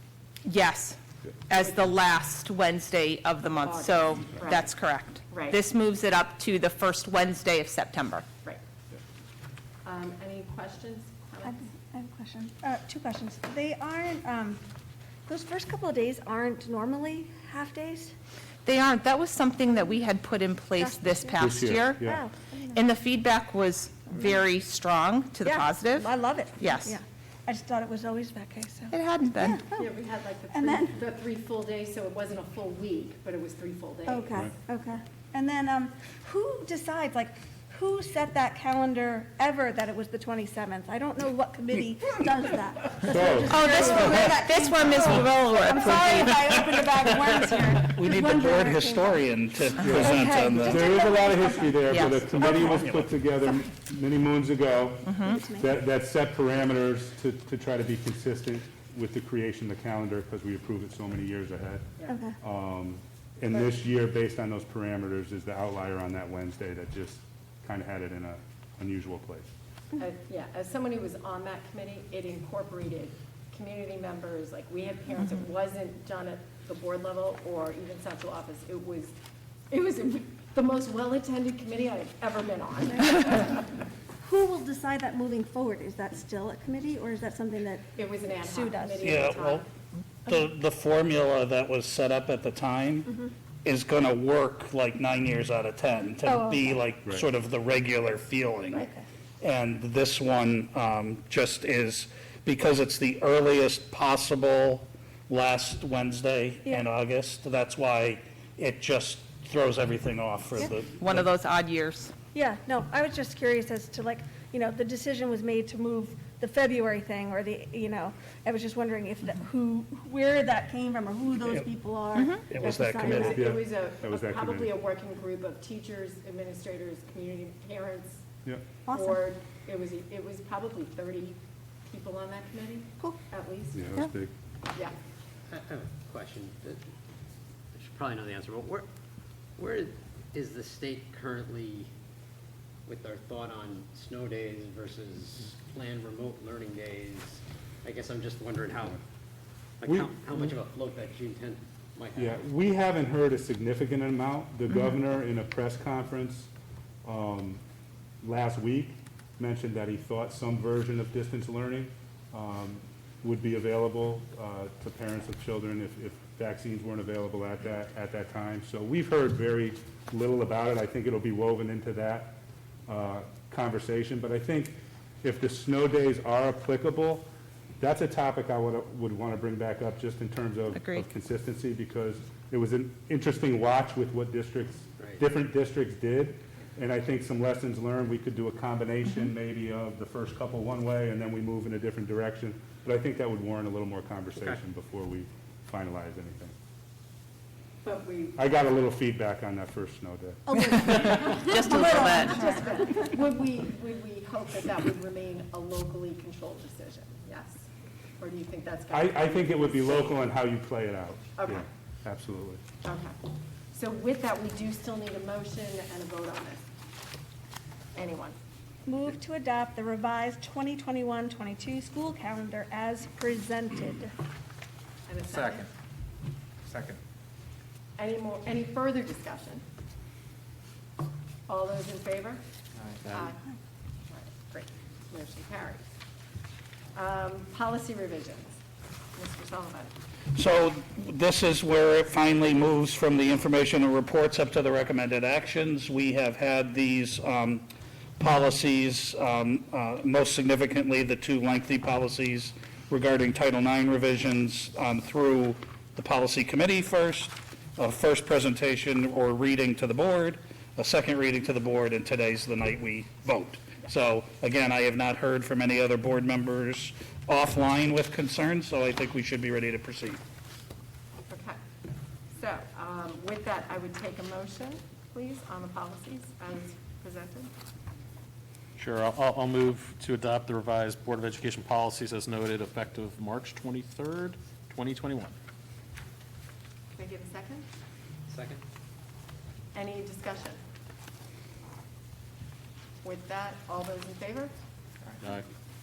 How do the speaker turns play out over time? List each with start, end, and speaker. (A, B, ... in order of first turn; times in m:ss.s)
0:00.4-0:08.3 A
0:03.6-0:04.7 B
0:05.3-0:05.6 B
0:09.8-0:11.6 B
0:11.4-0:14.6 C
0:15.3-0:18.1 C
0:18.6-0:22.2 A
0:20.8-0:21.4 C
0:21.4-0:22.2 D
0:22.0-0:22.8 C
0:22.7-0:27.0 A
0:25.4-0:29.9 C
0:28.9-0:29.6 A
0:29.7-0:34.3 B
0:30.5-0:31.0 C
0:34.1-0:52.8 C
0:43.1-0:44.3 D
0:43.5-0:46.6 A
0:47.9-0:50.9 E
0:49.8-0:51.0 A
0:49.8-1:01.9 D
0:51.8-0:52.6 A
0:52.7-0:53.0 E
0:55.0-0:55.4 A
0:55.2-0:55.7 C
1:02.1-1:02.4 C
1:02.4-1:09.5 D
1:10.0-1:19.2 B
1:19.7-1:23.6 B
1:24.2-1:29.1 C
1:28.0-1:29.7 B
1:29.0-1:29.7 E
1:30.3-1:38.9 E
1:36.2-1:36.7 C
1:38.7-1:39.1 C
1:39.4-1:51.3 E
1:51.0-1:52.1 A
1:52.3-2:03.5 C
2:02.2-2:02.4 A
2:02.4-2:03.3 E
2:03.0-2:08.2 B
2:03.1-2:04.7 D
2:08.9-2:09.2 C
2:08.9-2:13.9 B
2:13.7-2:14.3 D
2:15.5-2:16.8 F
2:17.7-2:18.9 F
2:19.6-2:21.9 F
2:22.9-2:29.0 F
2:29.8-2:32.4 F
2:32.2-2:36.5 D
2:37.0-2:37.6 D
2:38.2-2:57.3 D
2:57.8-3:16.5 D
3:00.7-3:01.1 A
3:14.4-3:14.6 F
3:17.8-3:18.4 B
3:18.4-3:20.4 D
3:20.5-3:23.0 C
3:20.8-3:22.6 A
3:21.0-3:27.7 B
3:28.2-3:30.0 B
3:28.9-3:32.6 D
3:31.4-3:31.7 B
3:32.8-3:33.2 B
3:33.7-3:36.7 B
3:38.0-3:38.4 B
3:38.9-3:44.1 C
3:45.1-3:45.7 B
3:48.0-3:49.6 B
3:51.5-3:52.4 B
3:53.0-3:53.4 B
3:54.1-3:55.8 B
3:57.0-3:58.6 B
3:59.2-3:59.9 B
4:00.4-4:07.7 E
4:08.2-4:30.2 E
4:31.3-4:31.6 B
4:32.4-4:37.5 B
4:38.8-4:45.4 G
4:47.0-4:47.7 B
4:48.3-4:48.6 F
4:49.7-4:50.6 B
4:53.0-4:54.5 B
4:55.2-4:55.5 G